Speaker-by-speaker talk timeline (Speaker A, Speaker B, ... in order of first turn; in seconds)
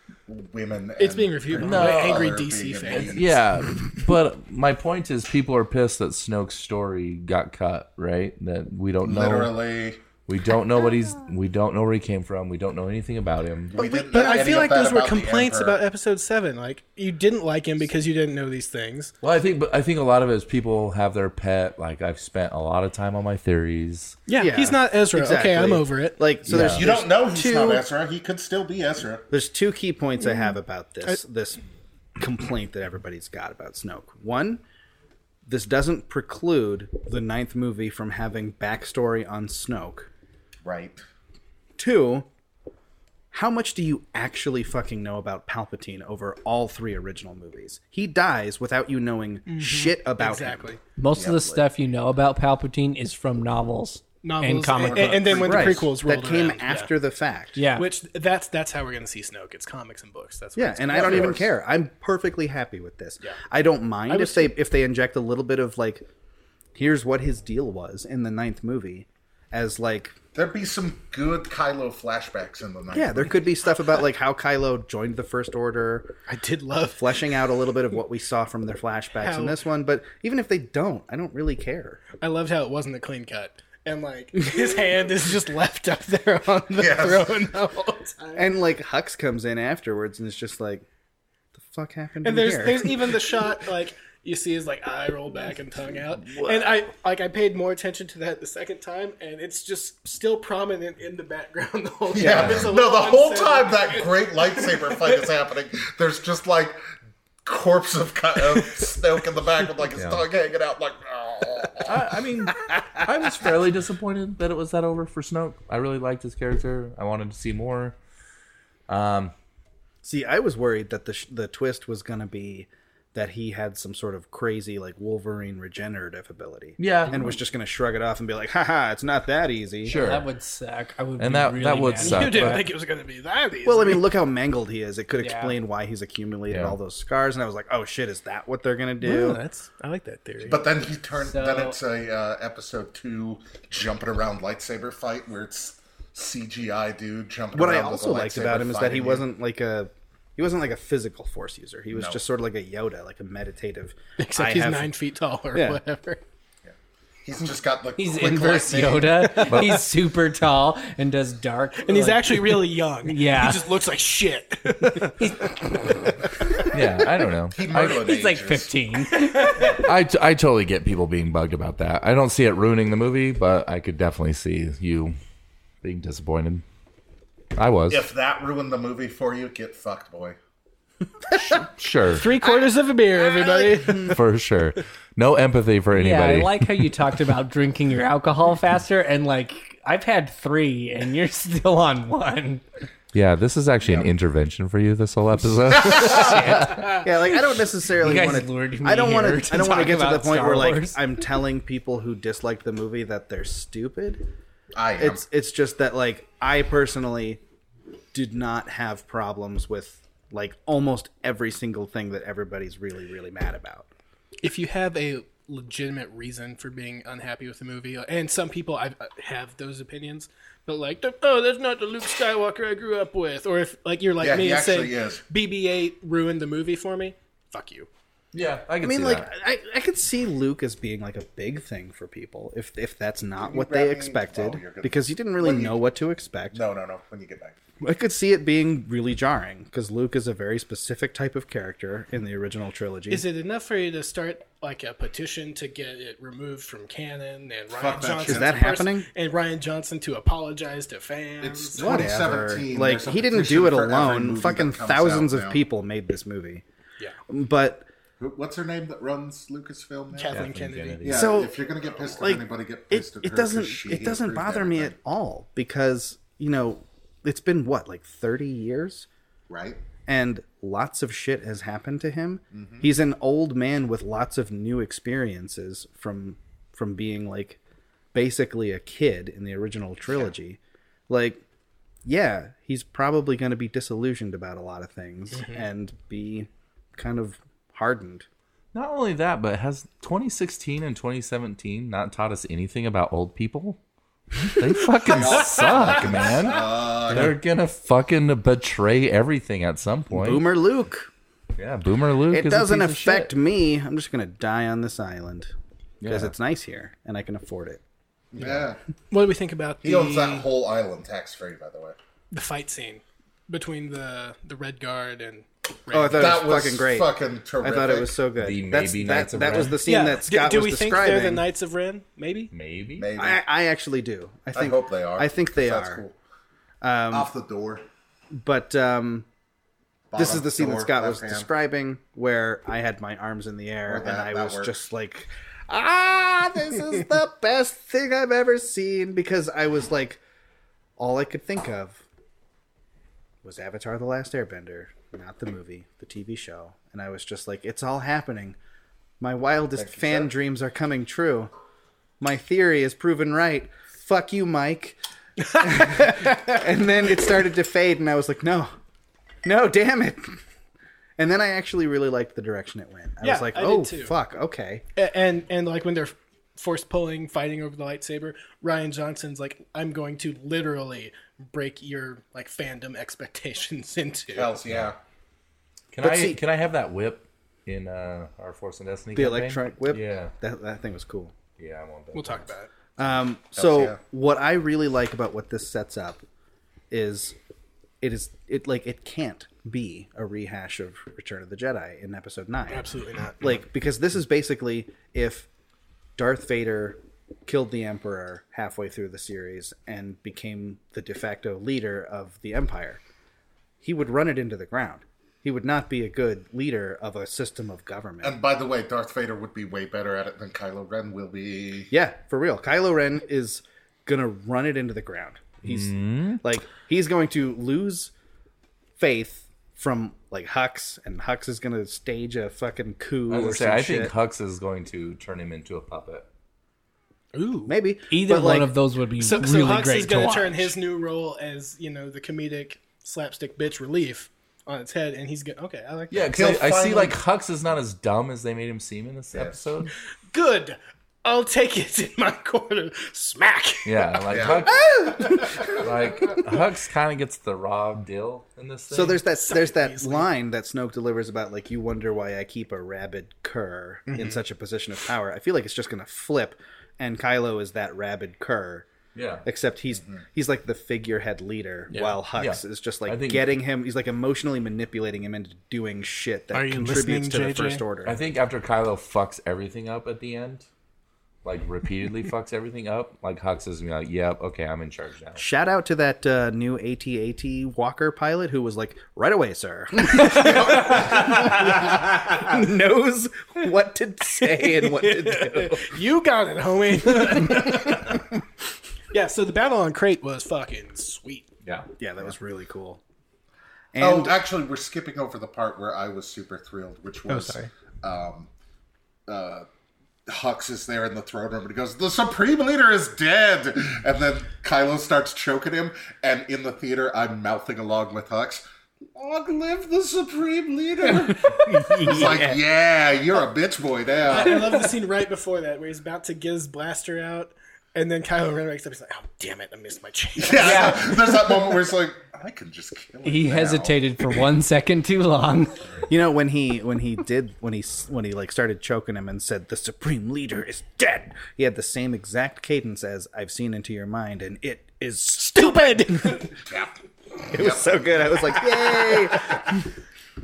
Speaker A: 0.3-3.4, 9.0-10.0, 13.7-15.8, 26.6-29.2, 40.6-41.0, 51.1-51.5, 54.8-55.9, 60.9-61.5, 70.3-73.4, 86.8-87.5, 102.1-106.8, 107.4-112.0, 140.4-149.2, 151.9-152.2, 156.7-159.7, 167.5-168.8, 177.9-180.4, 193.8-194.1, 195.7-196.5, 204.7-205.2, 224.2-225.2, 233.4-235.8, 236.5-237.6, 247.7-248.6, 251.4-255.6, 258.2-260.5, 261.0-264.9, 269.5-269.8, 272.5-272.9, 295.1-297.4, 308.3-308.8, 309.8-311.9, 316.1-318.1, 323.0-323.4, 324.5-326.1, 327.1-327.8, 330.1-331.5, 333.9-334.8, 349.8-350.3, 374.3-375.0, 383.6-384.0, 408.2-411.9, 436.3-437.2, 439.3-439.6, 444.3-444.9, 480.4-481.3, 494.0-498.5, 499.3-499.6, 500.3-514.7, 520.4-524.5, 536.6-539.1
Speaker B: 1.0-3.2, 14.0-19.1, 24.3-26.2, 27.3-27.8, 49.5-50.8, 54.2-56.9, 57.7-61.4, 64.1-64.5, 76.3-77.3, 79.2-79.6, 82.2-88.5, 92.2-105.3, 132.0-134.0, 139.0-140.7, 154.2-156.2, 161.8-165.3, 182.1-184.2, 214.4-227.9, 243.1-252.0, 260.1-261.2, 285.3-285.6, 309.1-310.5, 312.3-316.4, 319.8-322.5, 355.4-355.8, 363.2-364.1, 364.9-374.6, 382.1-382.7, 392.7-393.5, 427.3-427.7, 429.2-436.3, 440.3-444.1, 449.4-450.3, 466.5-467.8, 484.8-488.3, 489.1-491.5, 497.3-497.7, 514.2-521.3, 535.4-536.5
Speaker C: 1.6-2.2, 2.9-9.5, 10.3-13.8, 19.2-24.2, 26.4-26.9, 102.2-102.7, 109.9-110.2, 111.8-118.0, 118.9-119.3, 126.8-127.2, 129.8-130.3, 131.2-132.6, 136.5-136.8, 159.5-159.8, 166.7-168.1, 169.6-175.2, 175.8-176.6, 177.5-178.0, 181.3-182.3, 184.0-186.9, 193.1-196.8, 228.3-229.3, 260.3-261.3, 288.7-293.8, 294.4-300.4, 301.6-303.3, 306.0-306.3, 318.4-319.8, 322.5-323.1, 375.9-380.3, 381.6-382.5, 415.6-416.4, 423.3-426.3, 436.1-439.9, 443.8-449.2, 459.1-459.4, 461.9-463.5, 468.0-470.6, 471.4-475.4, 491.6-491.9
Speaker D: 13.8-14.5, 24.4-27.1, 29.3-31.6, 32.2-34.6, 35.5-40.1, 41.8-42.3, 43.3-51.6, 55.4-57.6, 60.5-66.1, 66.7-70.2, 72.9-76.2, 77.0-82.0, 88.3-90.8, 91.5-93.2, 96.2-96.8, 120.0-130.0, 133.6-139.4, 147.5-154.9, 155.5-155.8, 183.2-184.2, 196.8-204.3, 205.0-207.4, 208.1-213.9, 228.8-236.6, 237.8-243.2, 248.2-249.1, 251.8-256.6, 257.3-257.9, 261.1-261.6, 262.1-269.1, 270.1-277.6, 278.1-281.4, 282.0-288.2, 300.1-301.1, 302.3-305.5, 306.0-307.8, 315.9-321.4, 323.1-326.0, 326.8-327.3, 328.3-329.2, 330.1-340.2, 341.0-342.0, 343.4-348.6, 349.2-351.5, 352.2-355.0, 355.5-358.7, 359.4-360.4, 361.2-364.8, 376.0-376.4, 379.1-381.3, 383.0-386.2, 386.9-387.4, 388.0-392.9, 393.4-395.5, 396.2-403.0, 403.8-408.4, 411.9-418.1, 419.0-424.1, 427.7-428.7, 448.9-458.9, 459.4-468.2, 475.4-485.9, 492.0-493.0, 493.9-494.4, 526.1-536.4, 537.5-539.8
Speaker E: 51.0-55.5, 57.5-57.9, 129.8-132.6, 135.2-135.6, 141.2-141.8, 158.0-163.7, 165.0-166.2, 167.8-169.8, 185.9-192.6, 196.0-197.1, 198.0-201.0, 428.1-430.7, 511.3-512.6, 520.6-521.0, 523.2-525.8